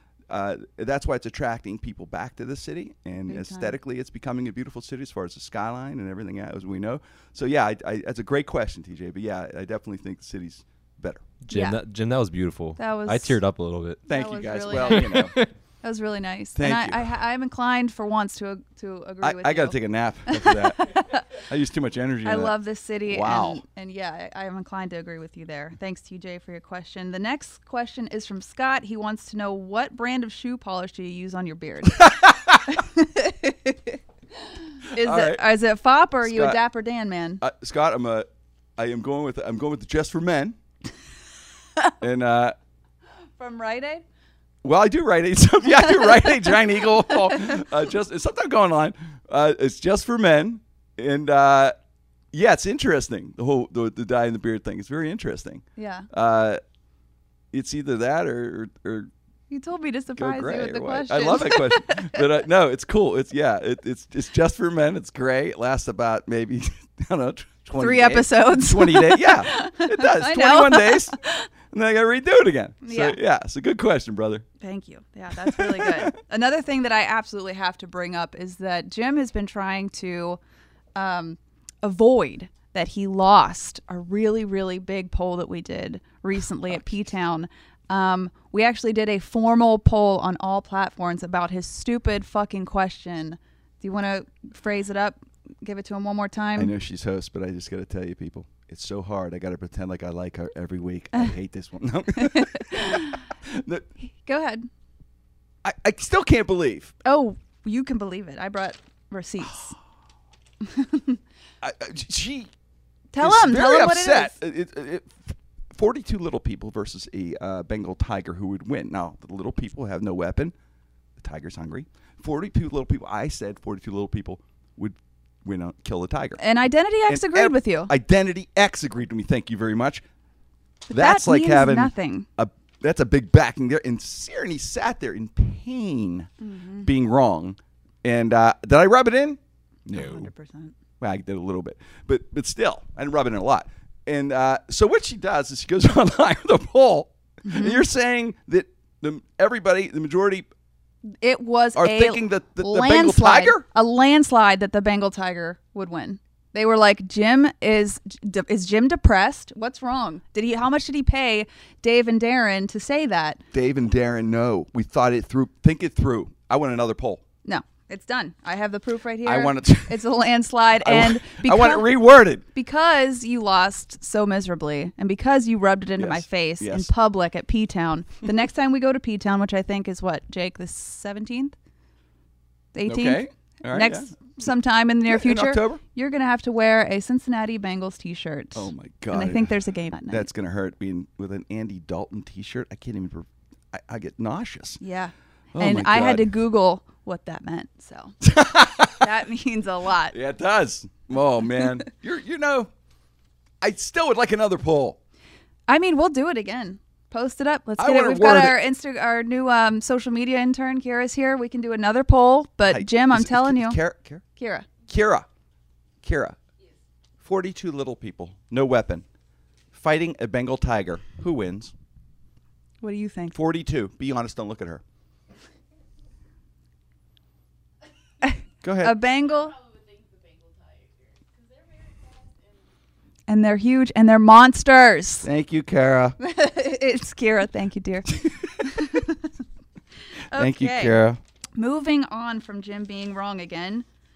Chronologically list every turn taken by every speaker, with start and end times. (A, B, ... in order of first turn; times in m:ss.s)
0:00.3-0:11.2 A
0:03.3-0:03.8 B
0:11.5-0:14.0 C
0:11.5-0:11.8 B
0:12.8-0:13.4 B
0:14.1-0:15.3 A
0:14.1-0:19.8 B
0:14.7-0:15.5 C
0:16.6-0:17.0 A
0:19.2-0:23.6 A
0:20.3-0:21.3 B
0:22.2-0:37.4 B
0:31.9-0:32.6 A
0:35.0-0:35.4 A
0:36.2-0:36.6 A
0:37.4-0:40.6 A
0:42.0-0:42.6 A
0:43.4-0:44.0 B
0:44.6-0:51.8 A
0:52.3-0:56.6 A
0:55.8-0:56.1 B
0:57.5-0:59.1 A
0:59.5-1:02.3 B
1:00.2-1:11.2 A
1:07.8-1:11.5 B
1:11.7-1:14.4 A
1:12.8-1:13.2 B
1:14.6-1:20.4 B
1:15.4-1:16.1 A
1:21.0-1:36.7 B
1:36.6-1:43.9 A
1:42.2-1:43.2 B
1:44.1-1:44.7 B
1:45.6-1:46.9 A
1:47.0-1:49.8 B
1:50.6-1:51.2 B
1:51.6-1:52.5 A
1:53.1-1:54.3 B
1:53.2-2:00.5 A
2:01.2-2:06.4 A
2:06.4-2:07.9 B
2:07.1-2:10.0 A
2:10.9-2:12.3 B
2:10.9-2:16.3 A
2:16.4-2:16.9 B
2:16.8-2:20.3 A
2:19.9-2:20.8 B
2:21.0-2:30.5 A
2:27.4-2:27.8 B
2:31.1-2:43.4 B
2:31.8-2:33.6 A
2:43.5-2:47.2 A
2:47.4-3:01.6 B
2:49.2-2:50.0 A
2:50.8-2:52.4 A
2:56.0-2:56.9 A
3:02.7-3:10.3 B
3:02.9-3:04.1 A
3:05.1-3:05.8 A
3:08.6-3:09.5 A
3:10.1-3:14.8 A
3:14.8-3:18.2 B
3:15.6-3:16.3 A
3:18.2-3:19.1 A
3:18.8-3:20.2 B
3:20.1-3:22.7 A
3:23.6-3:25.0 A
3:25.7-3:33.8 B
3:27.8-3:28.6 A
3:32.7-3:34.2 A
3:34.4-3:34.7 B
3:34.9-3:35.3 A
3:36.0-3:36.4 A
3:37.2-3:39.0 A
3:39.7-3:41.7 A
3:42.8-3:43.4 B
3:43.3-3:44.8 A
3:48.2-3:49.6 B
3:48.6-3:49.0 A
3:53.3-3:55.3 B
3:55.2-3:56.2 A
3:56.2-3:59.3 B
4:00.3-4:01.0 B
4:00.3-4:01.2 A
4:01.6-4:03.8 B